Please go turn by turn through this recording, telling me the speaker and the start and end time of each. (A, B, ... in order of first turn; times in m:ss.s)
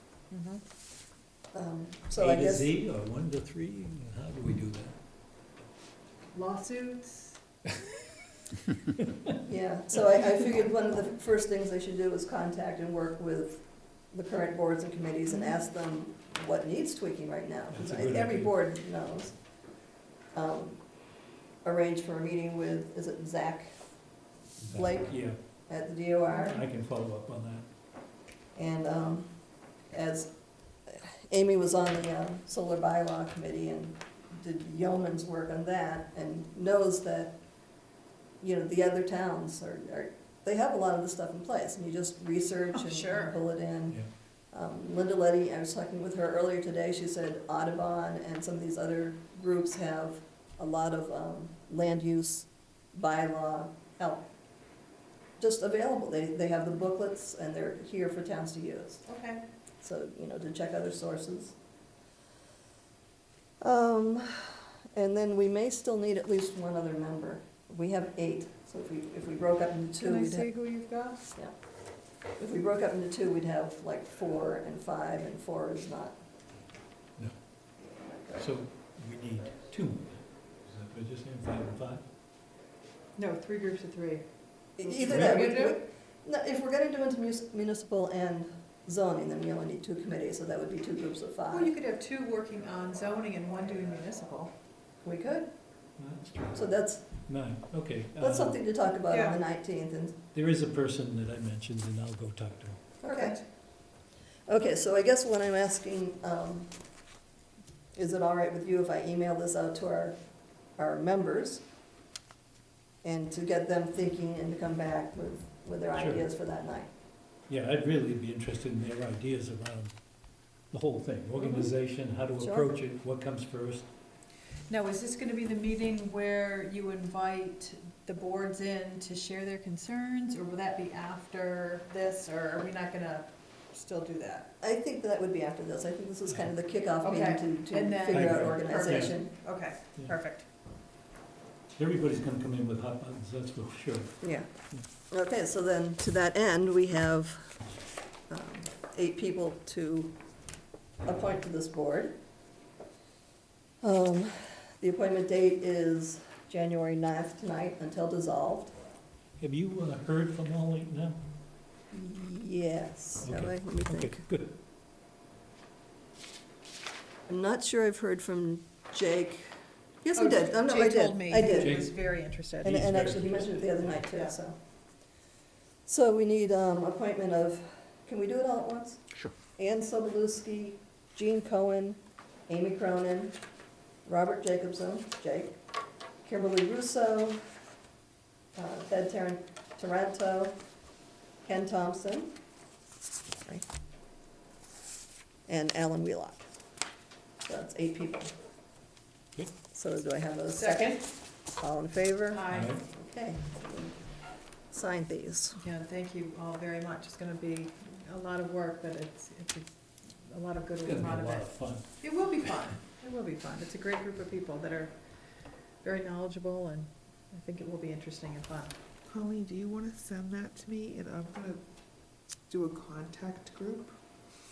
0:00.3-0:00.6 A
0:01.5-0:02.7 B
0:02.1-0:05.0 C
0:06.3-0:07.4 A
0:09.4-0:19.4 B
0:15.3-0:15.6 A
0:17.7-0:18.5 C
0:20.3-0:20.8 B
0:21.6-0:23.8 B
0:24.6-0:25.4 C
0:24.7-0:26.6 B
0:26.3-0:27.6 C
0:28.5-0:29.3 B
0:29.9-0:30.3 B
0:30.9-0:37.4 B
0:38.4-0:44.0 B
0:42.7-0:43.4 A
0:44.5-0:54.3 B
0:55.4-0:59.0 B
0:59.0-0:59.4 A
0:59.8-1:01.6 B
1:03.6-1:10.5 B
1:10.0-1:11.2 A
1:12.4-1:16.2 B
1:18.0-1:18.5 B
1:18.4-1:22.0 C
1:23.2-1:24.2 A
1:24.8-1:31.7 B
1:24.8-1:25.8 A
1:25.1-1:25.5 C
1:31.5-1:34.5 A
1:35.0-1:35.5 B
1:36.0-1:36.6 C
1:36.5-1:37.1 B
1:37.2-1:38.6 C
1:38.2-1:40.2 B
1:39.1-1:39.4 A
1:40.3-1:42.8 C
1:43.0-1:43.4 B
1:44.5-1:46.8 B
1:47.9-1:50.2 B
1:50.8-1:51.6 B
1:53.0-1:56.9 B
1:56.0-1:56.2 C
1:57.5-1:59.9 C
2:00.7-2:03.9 C
2:02.4-2:02.7 B
2:04.7-2:14.5 A
2:14.6-2:19.3 B
2:17.0-2:20.4 A
2:18.1-2:19.2 C
2:21.7-2:24.2 C
2:24.2-2:24.5 B
2:25.1-2:27.6 B
2:28.3-2:30.2 B
2:31.0-2:32.2 B
2:33.8-2:38.7 B
2:39.4-2:41.2 C
2:41.9-2:44.2 B
2:43.2-2:44.6 C
2:47.3-2:51.9 B
2:50.1-2:52.8 A
2:51.4-2:52.0 C
2:52.6-2:54.0 C
2:52.6-2:54.6 B
2:55.8-3:03.3 B
3:04.0-3:05.6 B
3:06.2-3:07.4 B
3:08.5-3:10.6 B
3:11.4-3:12.3 B
3:15.5-3:16.5 B
3:17.4-3:18.3 B
3:19.7-3:21.0 B
3:20.5-3:21.0 A
3:21.6-3:23.9 B
3:22.3-3:22.7 A
3:22.5-3:22.8 C
3:24.7-3:25.6 B
3:25.6-3:35.0 A
3:30.8-3:31.9 C
3:35.8-3:38.8 A
3:39.1-3:41.6 D
3:42.5-3:44.0 D